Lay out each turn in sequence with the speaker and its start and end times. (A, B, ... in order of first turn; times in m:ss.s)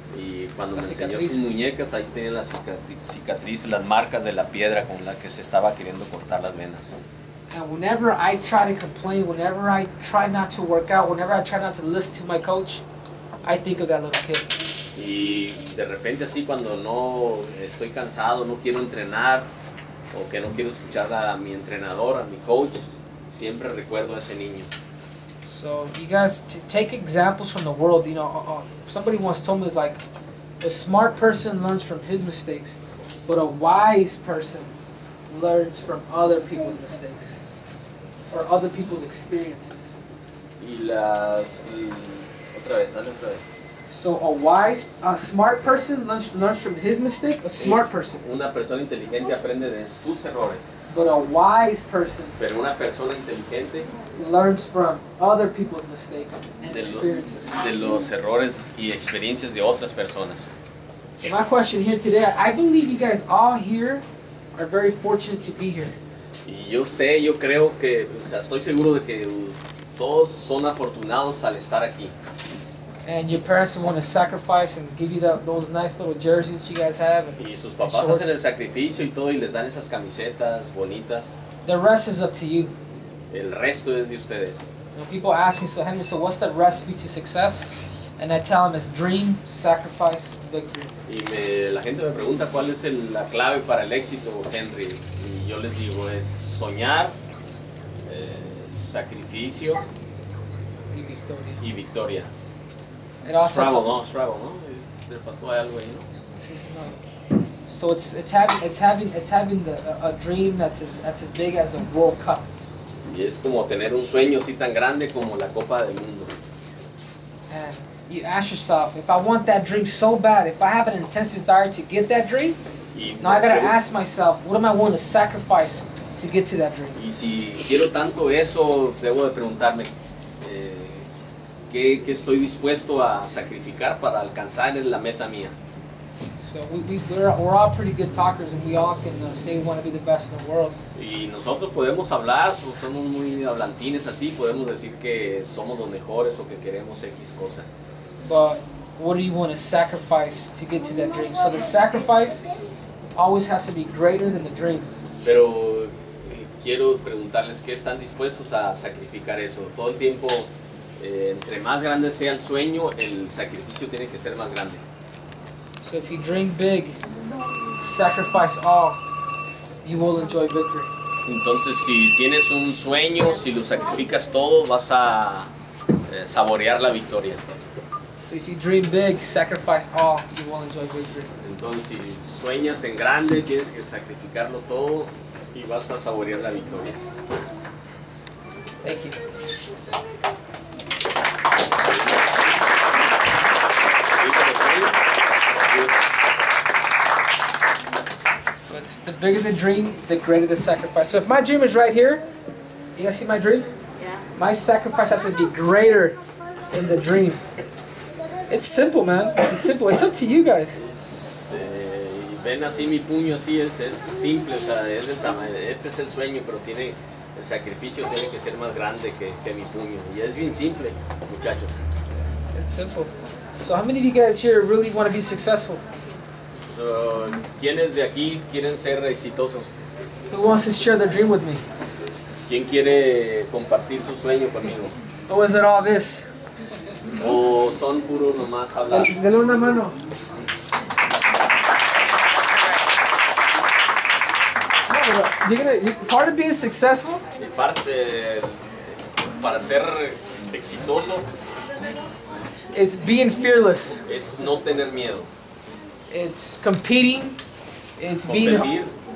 0:00.1-0:07.0 A
0:00.7-0:01.5 B
0:07.5-0:12.8 B
0:13.4-0:14.5 B
0:15.0-0:19.5 A
0:20.1-0:24.7 A
0:25.4-0:30.0 B
0:30.6-0:34.7 B
0:35.3-0:37.4 B
0:38.3-0:39.9 B
0:40.6-0:43.4 A
0:43.9-0:48.2 B
0:47.6-0:50.7 A
0:50.9-0:52.4 B
0:52.4-0:53.9 A
0:54.2-0:57.6 B
0:56.7-1:00.5 A
1:01.2-1:04.0 B
1:04.6-1:06.0 B
1:06.4-1:12.1 A
1:13.0-1:18.4 B
1:17.4-1:21.4 A
1:21.6-1:22.7 B
1:23.3-1:24.6 A
1:25.0-1:31.0 B
1:31.1-1:37.1 A
1:38.1-1:39.8 A
1:40.9-1:41.6 B
1:41.6-1:42.3 A
1:43.2-1:43.9 B
1:43.4-1:46.1 A
1:46.4-1:47.0 B
1:47.7-1:52.5 B
1:53.0-1:56.3 A
1:57.5-2:02.6 B
2:02.9-2:03.8 A
2:03.2-2:07.0 B
2:07.0-2:11.1 A
2:11.7-2:15.6 A
2:16.4-2:20.8 B
2:21.0-2:27.7 A
2:28.2-2:32.4 B
2:33.2-2:34.9 B
2:35.2-2:44.8 A
2:45.8-2:47.0 B
2:47.8-2:49.0 B
2:49.8-2:50.9 B
2:51.3-2:55.5 A
2:56.1-2:57.4 A
2:58.2-3:01.3 B
3:01.4-3:07.0 A
3:08.8-3:09.2 B
3:11.7-3:12.4 A
3:14.0-3:15.0 A
3:15.6-3:16.0 A
3:18.6-3:22.3 B
3:23.0-3:23.7 B
3:24.4-3:26.2 B
3:26.7-3:27.4 B
3:28.5-3:30.8 B
3:30.8-3:41.8 A
3:42.5-3:45.8 B
3:46.6-3:49.7 A
3:50.3-3:51.6 B
3:52.5-3:55.0 A
3:55.3-3:56.3 B
3:57.2-3:59.1 A
3:58.9-4:00.0 B
4:04.9-4:07.2 B
4:07.4-4:11.3 A
4:12.7-4:14.0 B
4:14.1-4:15.3 A
4:16.1-4:17.4 B
4:18.0-4:18.7 B
4:18.3-4:18.9 A